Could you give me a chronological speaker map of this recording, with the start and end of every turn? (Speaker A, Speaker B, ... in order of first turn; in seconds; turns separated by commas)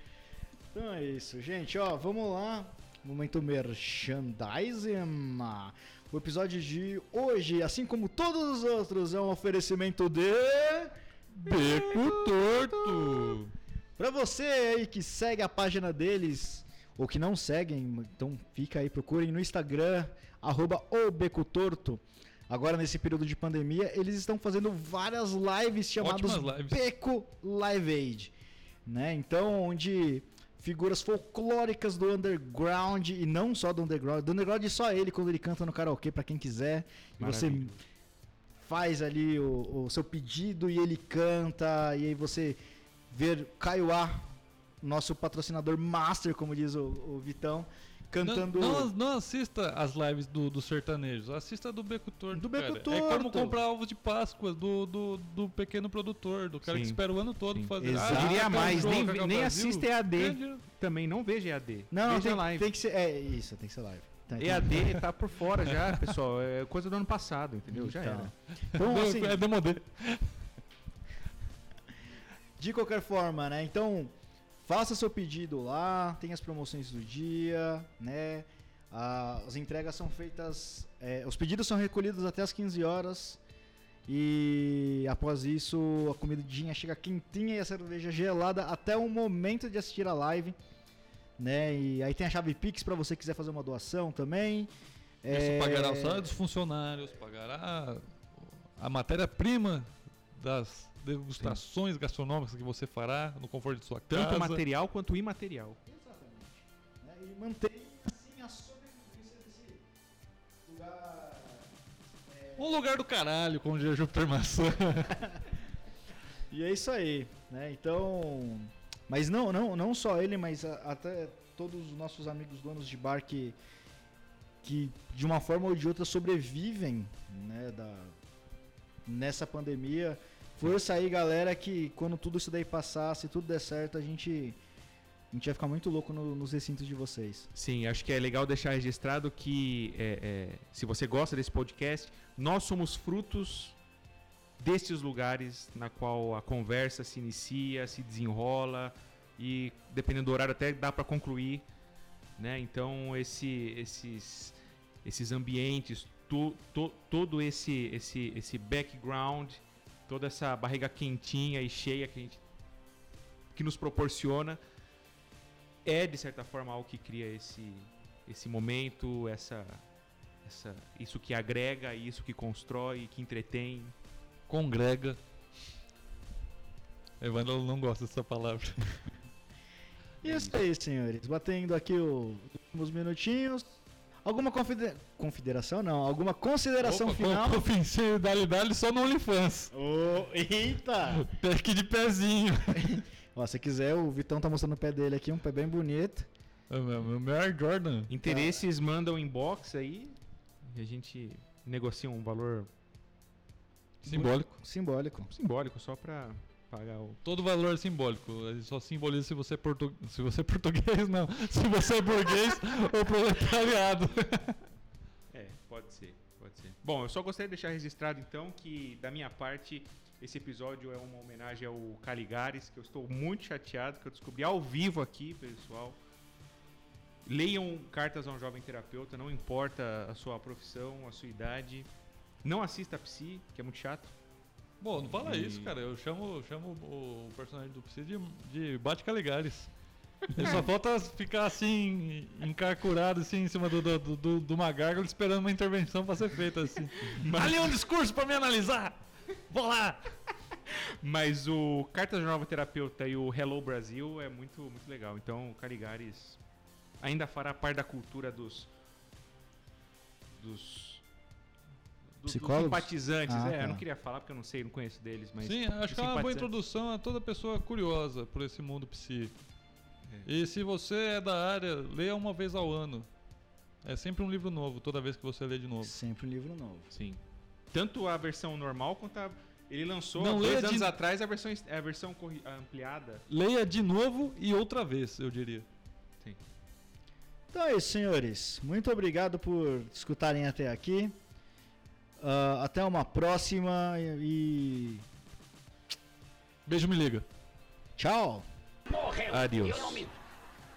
Speaker A: 0.7-11.0, Speaker B: 11.3-13.5, Speaker A: 11.5-12.1, Speaker A: 12.9-13.2, Speaker A: 14.0-28.3, Speaker B: 26.0-26.8, Speaker A: 28.9-37.7, Speaker C: 37.2-37.8, Speaker A: 38.6-42.6, Speaker A: 43.1-48.9, Speaker B: 48.2-60.6, Speaker A: 52.3-53.6, Speaker C: 56.7-62.7, Speaker A: 57.8-59.0, Speaker A: 61.9-65.1, Speaker C: 64.3-68.3, Speaker A: 67.7-69.4, Speaker B: 68.7-70.4, Speaker A: 72.6-83.4, Speaker A: 84.1-90.5, Speaker A: 91.4-94.7, Speaker A: 95.2-96.4, Speaker B: 95.3-104.6, Speaker C: 104.1-105.8, Speaker A: 105.9-109.8, Speaker A: 110.7-111.7, Speaker A: 112.3-112.8, Speaker B: 112.6-115.3, Speaker A: 115.1-115.4, Speaker A: 116.5-123.6, Speaker A: 124.6-128.2, Speaker A: 129.1-134.6, Speaker A: 135.3-137.5, Speaker C: 137.5-143.8, Speaker C: 144.6-151.7, Speaker C: 152.4-162.4, Speaker C: 163.5-164.6, Speaker C: 165.8-169.8, Speaker C: 170.4-173.9, Speaker B: 174.5-175.2, Speaker B: 177.2-178.9, Speaker C: 180.2-180.6, Speaker A: 180.2-187.7, Speaker B: 186.8-189.7, Speaker A: 189.7-191.3, Speaker B: 191.1-193.0, Speaker A: 192.7-196.3, Speaker B: 196.7-198.1, Speaker C: 198.1-202.7, Speaker A: 198.2-198.6, Speaker A: 204.0-205.3, Speaker B: 204.1-204.5, Speaker C: 205.3-207.2, Speaker B: 207.2-214.6, Speaker C: 215.3-226.0, Speaker C: 227.3-231.9, Speaker C: 232.4-234.1, Speaker B: 234.8-239.7, Speaker C: 235.0-235.7, Speaker C: 240.3-240.6, Speaker B: 240.3-249.0, Speaker C: 247.0-247.8, Speaker B: 249.5-250.1, Speaker C: 250.7-256.4, Speaker C: 257.0-258.7, Speaker C: 260.4-261.0, Speaker C: 262.2-266.5, Speaker A: 262.3-263.8, Speaker B: 265.4-269.3, Speaker B: 270.2-273.1, Speaker B: 273.8-275.9, Speaker A: 275.8-276.9, Speaker C: 276.9-277.2, Speaker C: 277.7-283.3, Speaker B: 280.2-280.9, Speaker B: 283.3-285.7, Speaker A: 287.5-291.2, Speaker A: 292.2-295.1, Speaker B: 296.7-297.3, Speaker A: 298.0-298.5, Speaker C: 299.0-300.1